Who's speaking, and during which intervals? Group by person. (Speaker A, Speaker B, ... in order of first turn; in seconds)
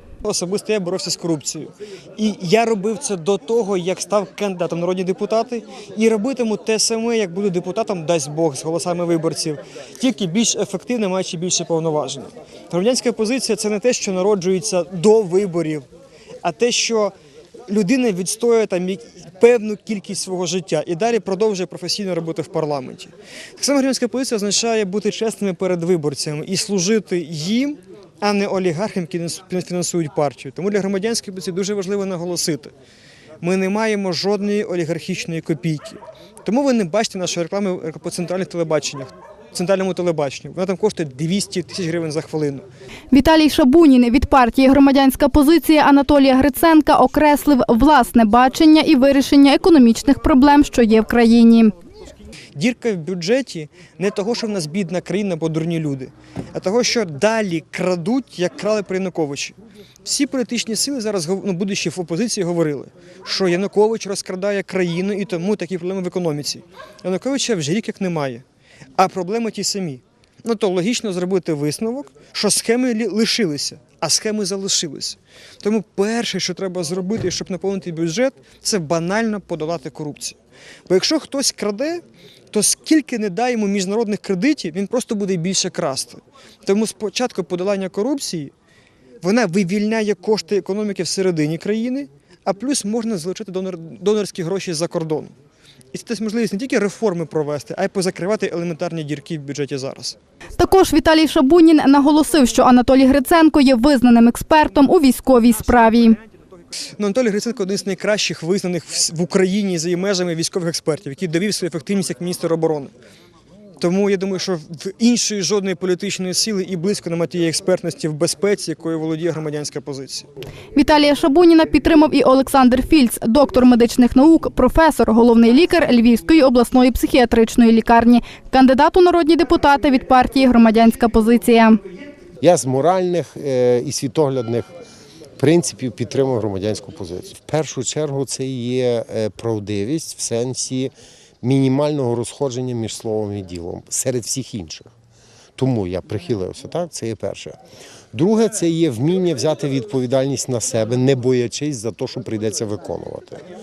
Speaker A: 0.2-15.9, 16.4-17.1, 17.7-32.7, 33.4-42.7, 52.5-68.4, 69.0-80.4, 80.9-88.5, 89.2-95.3, 95.9-100.2, 107.0-112.9, 113.8-120.3
Speaker B: 43.1-51.7, 100.6-106.2, 120.7-131.8
Speaker C: 132.4-134.7, 135.4-144.9, 145.6-147.6, 148.1-153.4